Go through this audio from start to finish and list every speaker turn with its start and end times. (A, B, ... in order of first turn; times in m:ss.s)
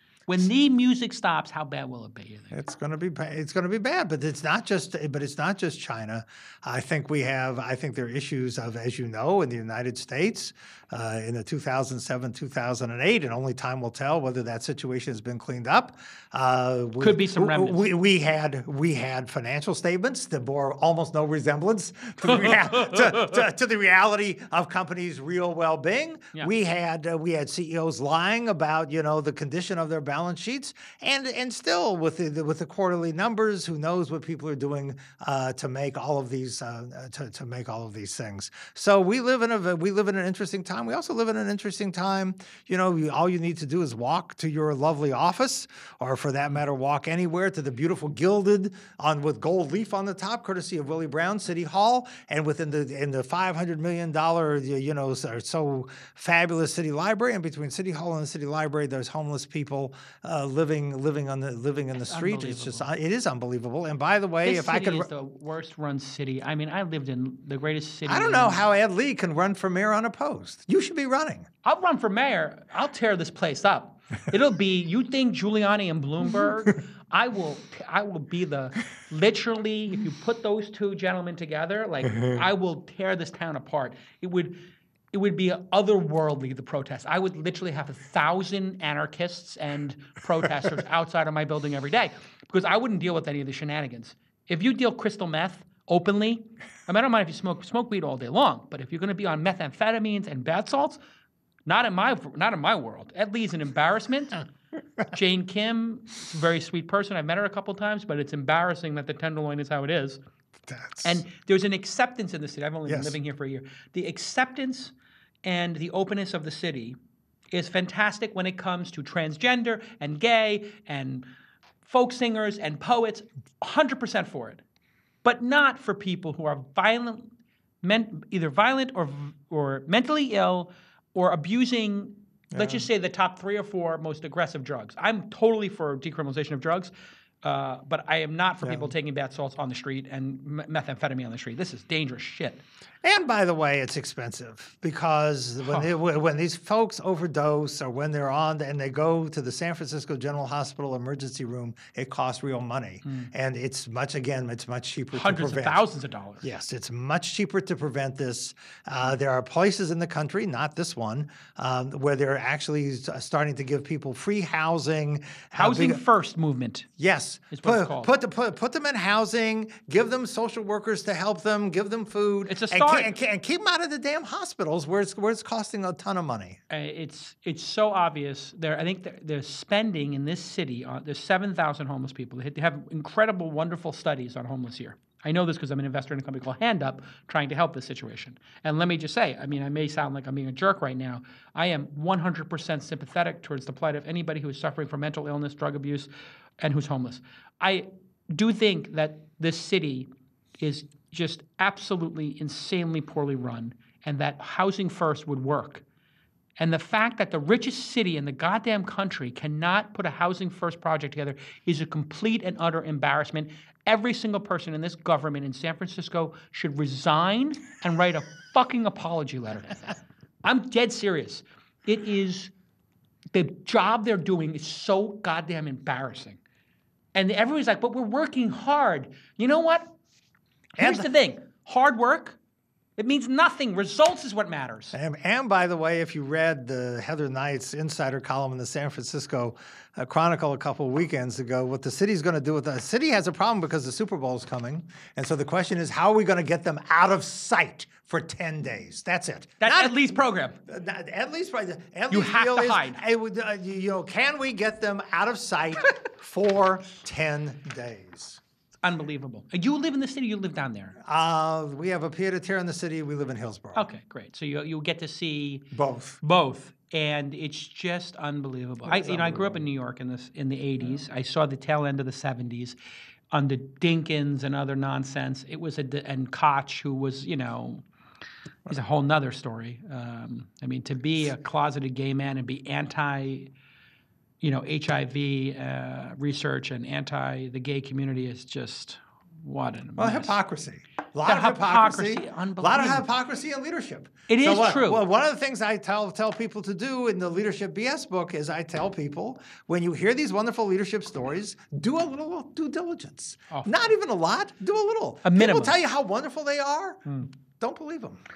0:00.3-0:02.6 A
0:02.5-1:05.1 B
0:17.0-0:17.8 A
0:22.3-0:23.3 A
1:02.1-1:02.9 A
1:04.4-1:08.6 A
1:08.0-1:11.5 B
1:11.6-1:41.0 A
1:41.6-1:44.4 A
1:45.1-1:50.2 A
1:50.6-1:51.2 B
1:51.0-1:54.9 A
1:52.9-1:53.2 B
1:55.4-1:57.0 A
1:57.5-2:01.3 A
2:01.8-2:04.6 A
2:05.2-2:07.3 A
2:07.8-2:16.9 A
2:12.5-2:12.8 B
2:17.4-2:22.6 A
2:23.0-2:35.8 B
2:35.1-2:36.5 A
2:36.4-2:46.0 B
2:45.6-2:46.9 A
2:47.0-2:56.6 B
2:47.5-2:48.1 A
2:52.5-2:53.1 A
2:56.7-3:16.1 A
3:16.6-3:20.1 A
3:20.6-3:25.8 A
3:26.6-3:42.5 A
3:43.3-3:46.4 A
3:47.1-3:49.9 A
3:50.8-3:52.4 A
3:50.8-3:51.1 B
3:53.0-3:55.0 A
3:54.9-4:10.0 B
4:09.6-4:10.6 A
4:10.6-4:18.4 B
4:12.1-4:13.0 A
4:18.8-4:21.0 A
4:21.0-4:23.9 B
4:23.7-4:32.8 A
4:25.7-4:26.2 B
4:28.8-4:29.6 B
4:33.3-4:37.8 A
4:38.7-4:43.5 A
4:44.4-4:50.4 A
4:50.0-5:08.2 B
4:51.2-4:53.0 A
4:54.3-4:55.0 A
5:03.5-5:03.9 A
5:05.2-5:05.8 A